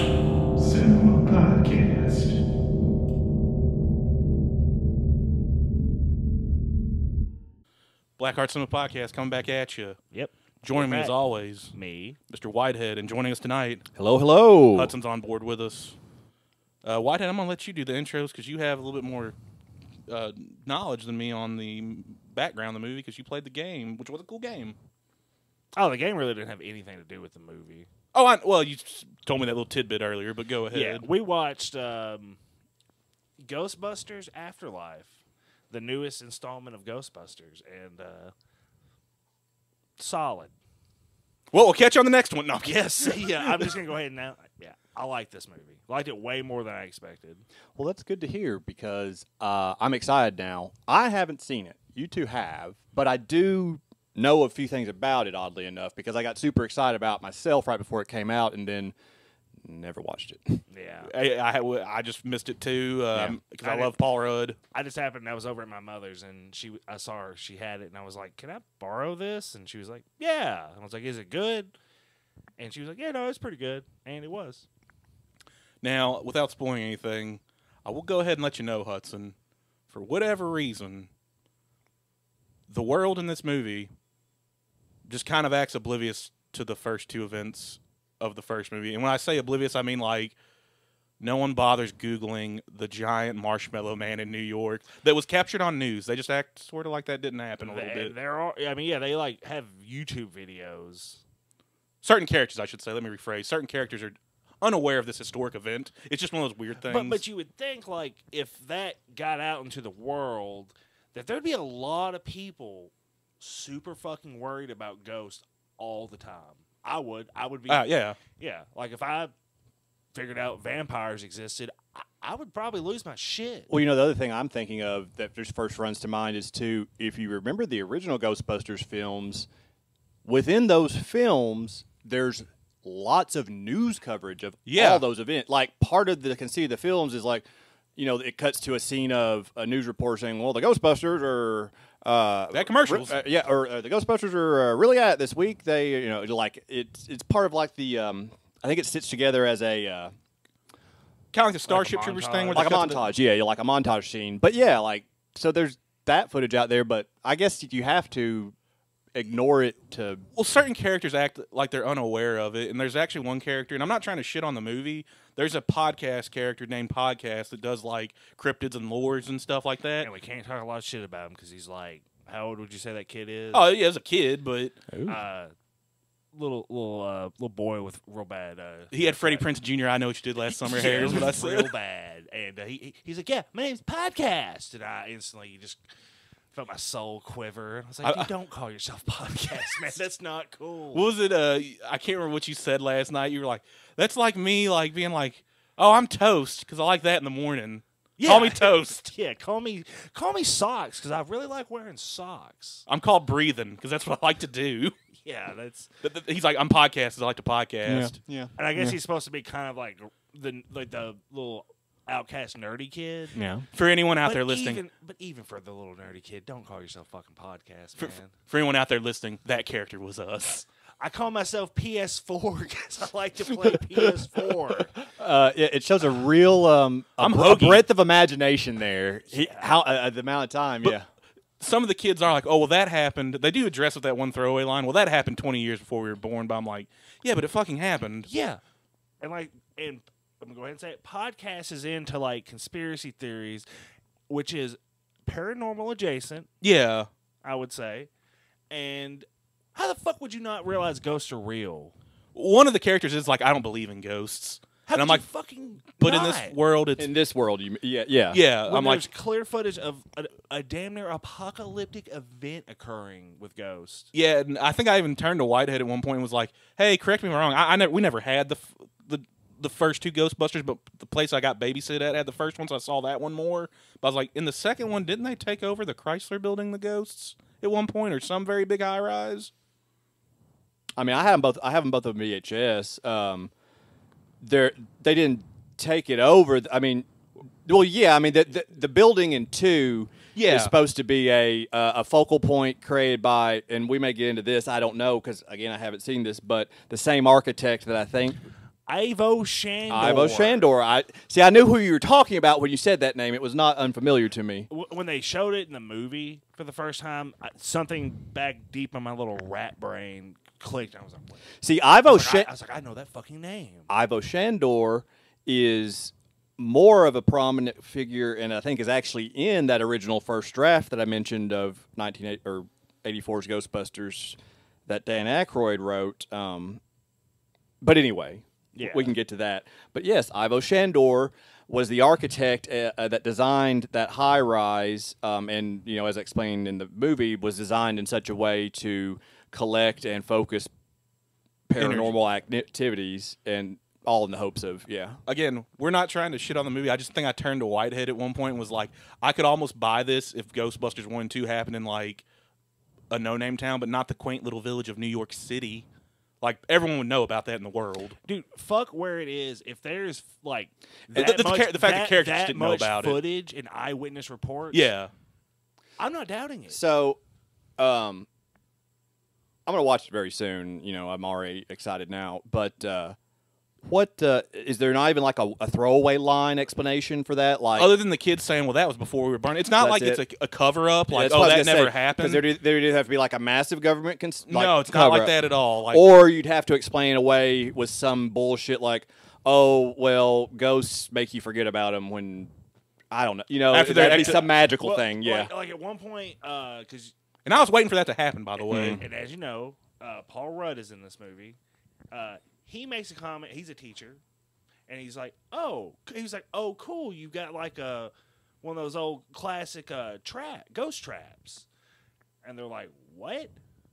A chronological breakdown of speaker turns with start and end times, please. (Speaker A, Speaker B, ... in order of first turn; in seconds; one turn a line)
Speaker A: 0.6-2.4
Speaker A: 8.2-10.0
Speaker B: 10.1-11.2
Speaker A: 10.6-11.7
Speaker B: 11.7-12.2
Speaker A: 12.3-13.8
Speaker C: 13.9-14.9
Speaker A: 14.7-16.0
Speaker A: 16.8-19.3
Speaker A: 20.1-24.8
Speaker B: 25.8-27.9
Speaker A: 28.1-31.0
Speaker B: 30.7-32.4
Speaker B: 33.4-35.2
Speaker B: 35.7-38.3
Speaker B: 40.0-40.5
Speaker A: 41.5-43.7
Speaker B: 42.6-47.4
Speaker C: 47.8-58.9
Speaker C: 59.6-60.6
Speaker B: 60.7-61.1
Speaker A: 61.0-64.6
Speaker B: 63.6-63.9
Speaker B: 64.7-71.7
Speaker B: 72.6-74.7
Speaker A: 75.8-79.3
Speaker A: 79.9-81.1
Speaker A: 82.7-83.9
Speaker A: 85.0-90.3
Speaker A: 91.2-98.1
Speaker B: 97.6-101.2
Speaker A: 102.0-107.2
Speaker B: 106.8-119.3
Speaker A: 117.7-118.2
Speaker B: 120.1-123.7
Speaker C: 123.7-129.5
Speaker C: 130.2-137.4
Speaker A: 134.7-135.0
Speaker C: 137.9-150.1
Speaker A: 142.5-143.2
Speaker A: 151.3-153.0
Speaker B: 151.7-152.8
Speaker C: 152.5-158.5
Speaker C: 159.1-160.2
Speaker A: 160.3-170.1
Speaker B: 170.0-173.7
Speaker A: 173.5-174.8
Speaker C: 174.9-175.2
Speaker B: 175.1-175.5
Speaker B: 176.3-179.4
Speaker A: 178.9-181.7
Speaker B: 180.5-185.8
Speaker C: 180.8-181.3
Speaker B: 186.5-191.1
Speaker A: 188.0-188.3
Speaker A: 190.9-199.1
Speaker B: 198.2-202.8
Speaker A: 202.9-204.9
Speaker B: 205.1-205.9
Speaker A: 206.0-208.1
Speaker C: 207.8-209.0
Speaker B: 208.6-213.4
Speaker C: 213.3-213.7
Speaker A: 213.7-214.8
Speaker B: 214.2-218.3
Speaker A: 218.0-220.7
Speaker B: 221.0-224.9
Speaker A: 223.6-224.1
Speaker C: 225.2-231.1
Speaker A: 227.2-227.8
Speaker A: 231.6-238.3
Speaker B: 238.2-238.6
Speaker B: 239.2-243.7
Speaker B: 244.3-246.5
Speaker A: 246.6-247.1
Speaker B: 247.4-248.1
Speaker B: 248.7-251.9
Speaker A: 252.3-255.2
Speaker B: 254.9-256.6
Speaker A: 256.0-257.1
Speaker C: 257.0-258.4
Speaker A: 258.3-259.1
Speaker B: 258.6-264.1
Speaker A: 264.1-279.5
Speaker C: 281.0-283.5
Speaker C: 284.4-287.1
Speaker C: 287.6-298.4
Speaker A: 290.4-290.7
Speaker B: 298.9-300.7
Speaker C: 299.9-304.7
Speaker B: 304.7-311.4
Speaker C: 311.6-312.5
Speaker B: 312.0-313.9
Speaker C: 313.9-326.8
Speaker C: 327.8-340.7
Speaker B: 328.7-329.1
Speaker C: 341.7-345.2
Speaker A: 341.8-342.1
Speaker A: 345.3-352.2
Speaker A: 353.1-355.9
Speaker A: 356.4-358.2
Speaker B: 358.2-364.9
Speaker A: 361.1-363.2
Speaker A: 364.7-365.1
Speaker B: 366.0-366.8
Speaker C: 366.7-367.2
Speaker C: 367.8-368.3
Speaker C: 369.6-373.1
Speaker C: 373.8-377.9
Speaker A: 377.8-382.4
Speaker C: 379.8-380.2
Speaker C: 381.1-385.3
Speaker A: 384.5-386.0
Speaker C: 385.9-392.5
Speaker C: 393.1-395.5
Speaker A: 393.7-394.5
Speaker B: 394.0-397.1
Speaker A: 397.4-399.0
Speaker B: 398.6-401.6
Speaker C: 398.7-399.0
Speaker B: 402.1-404.2
Speaker B: 404.9-411.6
Speaker B: 412.4-413.5